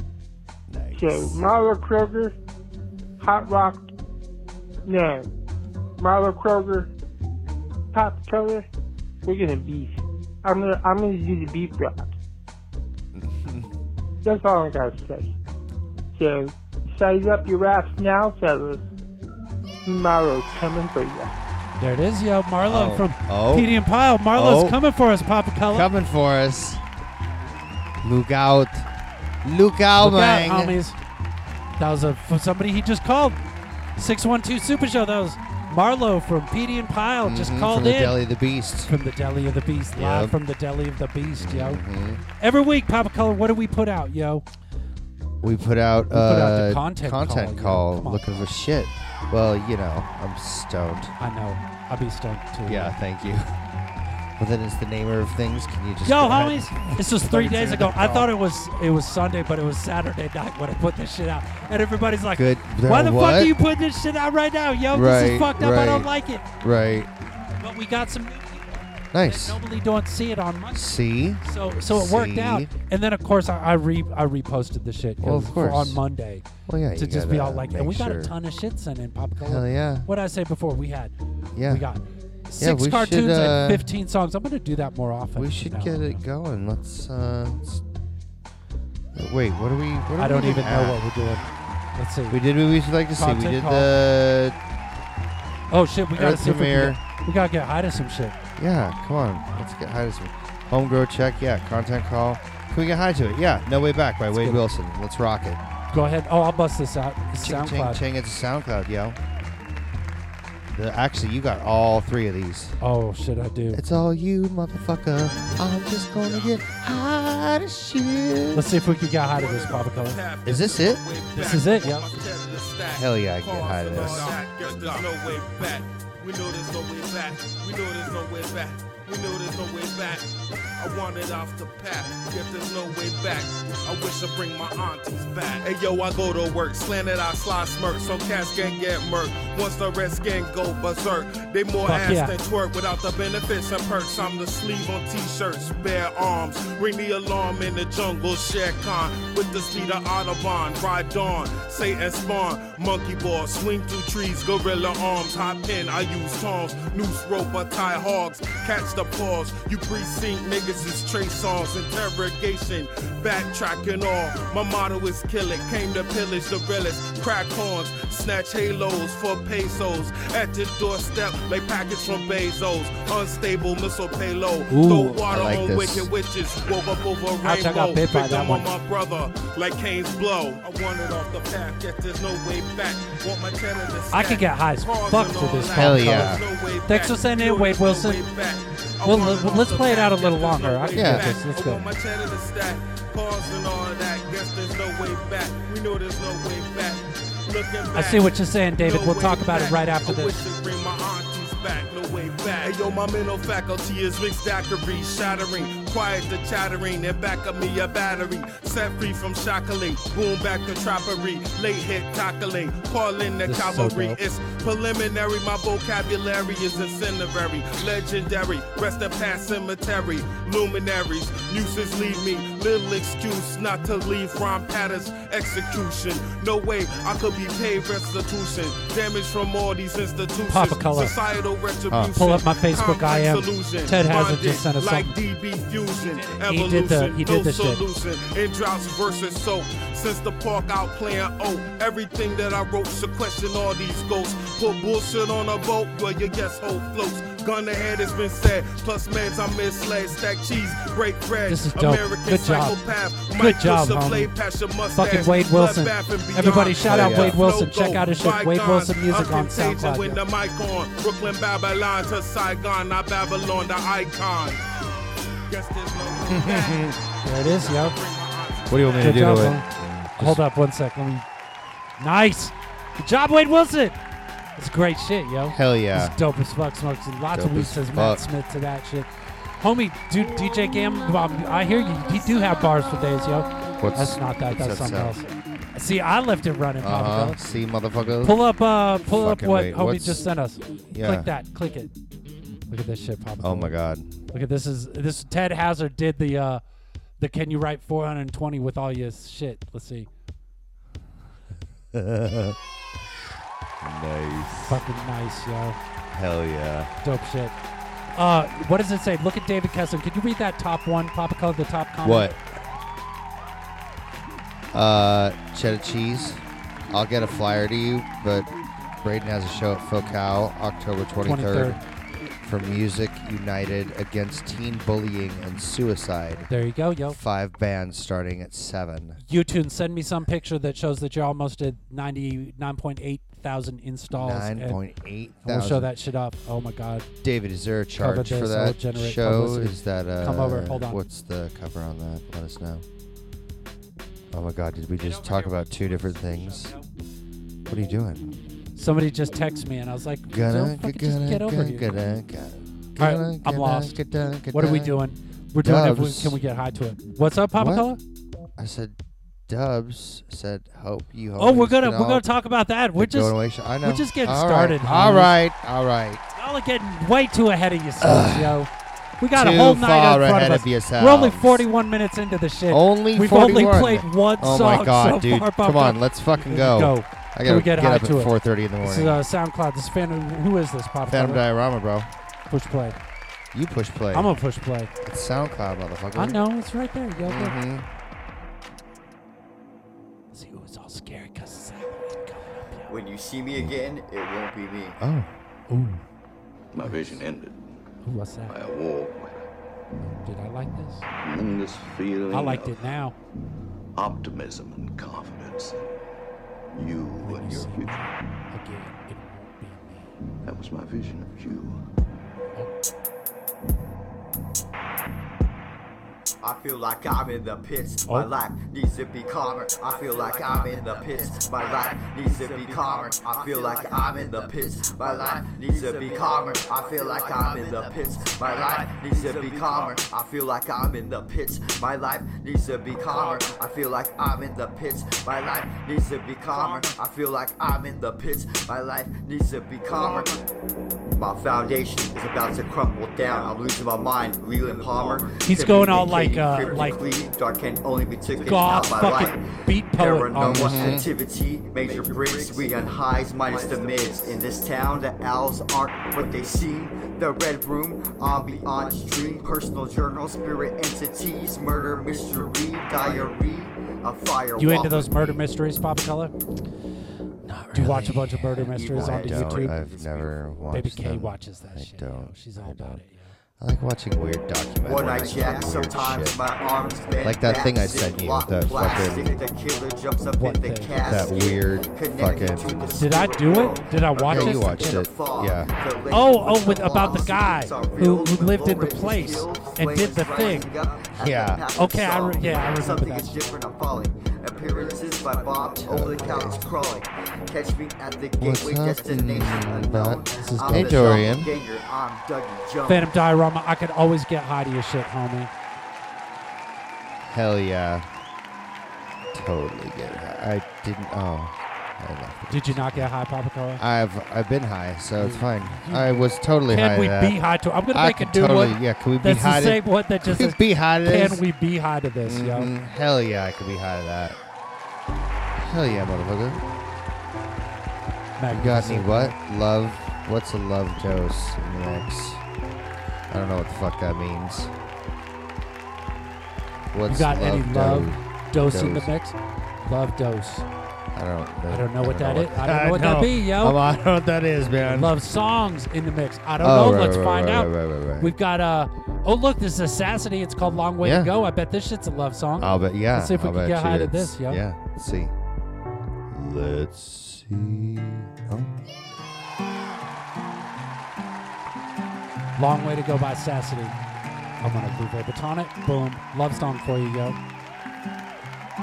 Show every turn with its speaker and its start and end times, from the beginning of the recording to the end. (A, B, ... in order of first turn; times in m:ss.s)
0:00.7-0:01.5 A
0:01.0-0:02.3 B
0:03.2-0:03.8 B
0:04.8-0:05.3 B
0:06.0-0:06.9 B
0:07.9-0:08.7 B
0:09.2-0:12.1 B
0:13.1-0:13.7 A
0:14.2-0:15.3 B
0:16.2-0:18.8 B
0:19.8-0:21.3 B
0:21.8-0:25.9 C
0:22.6-0:23.7 A
0:24.3-0:24.8 A
0:25.7-0:26.8 A
0:28.0-0:28.9 A
0:29.4-0:30.8 A
0:30.0-0:31.0 C
0:31.8-0:33.4 C
0:34.0-0:38.2 C
0:37.2-0:38.9 A
0:38.9-0:41.8 C
0:39.9-0:40.4 A
0:41.4-0:42.2 A
0:42.4-0:44.4 C
0:45.4-0:51.1 A
0:46.1-0:48.5 C
0:51.2-0:53.0 C
0:52.7-0:53.4 A
0:54.4-0:58.3 A
0:56.0-1:06.4 C
1:02.3-1:03.5 A
1:04.9-1:06.1 A
1:06.6-1:07.1 A
1:07.6-1:21.1 C
1:09.1-1:09.6 A
1:10.7-1:12.7 A
1:15.2-1:16.0 A
1:16.6-1:18.3 A
1:19.4-1:20.1 A
1:21.5-1:21.8 A
1:21.7-1:26.2 C
1:22.6-1:23.8 A
1:25.4-1:27.8 A
1:29.1-1:31.0 A
1:30.2-1:32.4 C
1:32.3-1:34.6 A
1:33.2-1:33.9 C
1:35.7-1:38.4 C
1:36.1-1:37.0 A
1:38.6-1:45.6 A
1:44.3-1:44.6 C
1:45.9-1:48.0 C
1:47.4-1:49.2 A
1:50.7-1:52.8 A
1:52.8-1:53.8 C
1:53.7-1:58.6 A
1:58.5-2:00.2 C
1:59.3-4:24.6 D
2:00.4-2:01.0 A
2:01.3-2:02.1 C
2:02.9-2:04.4 A
2:03.9-2:05.0 C
2:21.8-2:22.3 C
2:54.7-2:55.2 C
2:55.2-2:56.1 A
2:57.4-2:58.7 C
3:04.1-3:08.2 C
3:05.7-3:06.4 A
3:09.0-3:11.9 C
3:10.9-3:11.3 A
3:17.9-3:20.4 C
3:33.4-3:34.2 C
3:50.5-3:51.1 C
3:52.1-3:55.2 C
3:56.0-3:57.8 C
4:11.5-4:12.8 C
4:13.4-4:14.3 C
4:14.9-4:20.2 C
4:16.8-4:17.4 A
4:25.5-4:29.2 D
4:26.3-4:27.0 A
4:27.2-4:27.9 C
4:28.7-4:30.4 A
4:29.0-4:29.6 C
4:30.2-4:31.2 C
4:32.0-4:34.0 C
4:34.6-4:39.1 C
4:35.5-4:36.2 A
4:37.3-4:38.2 A
4:39.6-4:47.4 C
4:43.8-4:45.2 A
4:46.8-4:48.4 A
4:48.2-4:51.9 C
4:49.0-4:50.2 A
4:50.9-4:51.3 A
4:52.7-4:53.7 C
4:53.4-4:54.2 A
4:54.3-4:56.6 C
4:57.2-5:00.1 C
5:01.9-5:02.6 A
5:03.8-5:04.8 A
5:04.7-5:05.8 C
5:06.1-5:06.9 A
5:07.0-5:07.6 C
5:08.2-5:12.3 C
5:12.0-5:12.5 A
5:14.7-5:18.5 A
5:19.0-5:21.8 A
5:21.2-5:21.8 C
5:22.4-5:26.5 A
5:26.5-5:27.2 C
5:27.1-5:29.2 A
5:29.2-5:34.8 C
5:34.2-5:35.9 A
5:35.4-5:37.1 C
5:37.2-5:42.8 A
5:38.0-5:41.0 C
5:44.3-5:46.7 A
5:45.0-5:46.9 C
5:47.7-5:48.3 A
5:48.8-5:52.0 C
5:50.3-5:55.0 A
5:53.0-5:54.0 C
5:54.5-5:58.0 C
5:55.6-5:56.4 A
5:57.5-5:57.9 A
5:58.6-5:58.9 A
5:59.5-6:02.2 A
6:01.4-6:05.4 C
6:03.0-6:06.2 A
6:06.4-6:08.7 C
6:08.0-6:08.6 A
6:09.2-6:21.4 C
6:09.3-6:11.6 A
6:12.7-6:19.2 A
6:21.1-6:22.1 A
6:22.5-6:23.0 C
6:23.5-6:24.3 A
6:24.1-6:24.9 C
6:25.0-6:26.4 A
6:26.2-6:27.6 C
6:27.2-6:27.9 A
6:30.3-6:32.9 C
6:32.9-6:35.0 E
6:35.0-6:35.3 A
6:35.7-6:36.0 C
6:36.7-6:37.6 F
6:36.8-6:37.2 C
6:38.0-6:38.6 C
6:38.5-6:39.4 F
6:40.2-6:41.0 C
6:41.2-6:42.8 F
6:42.3-6:43.1 C
6:44.0-6:45.9 F
6:46.7-6:48.1 F
6:47.2-6:50.1 C
6:50.4-6:51.8 F
6:56.4-7:20.4 E
7:21.1-7:45.4 E
7:25.4-7:27.0 C
7:28.4-7:31.0 C
7:30.4-7:31.0 A
7:44.6-7:46.3 C
7:47.5-7:53.0 A
7:47.7-7:49.8 C
7:48.7-7:50.4 E
7:50.7-7:53.3 C
7:53.6-7:56.4 A
7:54.8-8:23.2 E
7:57.2-7:59.3 A
8:00.4-8:00.9 C
8:01.0-8:02.8 A
8:02.8-8:05.0 C
8:04.3-8:05.7 A
8:06.1-8:10.7 C
8:11.2-8:11.6 A
8:11.7-8:13.3 C
8:15.7-8:16.7 A
8:18.4-8:21.5 A
8:20.4-8:21.3 C
8:22.9-8:25.5 C
8:27.2-8:28.0 A
8:29.3-8:33.1 A
8:32.5-8:33.8 C
8:33.8-8:37.4 A
8:35.2-8:42.7 C
8:37.9-8:41.4 A
8:42.2-8:44.4 A
8:45.6-8:46.6 A
8:48.4-8:49.4 C
8:48.5-8:52.4 A
8:53.3-8:54.7 A
8:56.9-8:59.1 A
8:57.1-9:00.6 C
9:01.1-9:05.1 A
9:01.7-9:03.8 C
9:04.8-9:14.6 C
9:06.6-9:08.3 A
9:11.0-9:11.3 A
9:12.6-9:15.3 A
9:16.3-9:18.7 A
9:22.6-9:24.0 C
9:24.6-9:27.4 C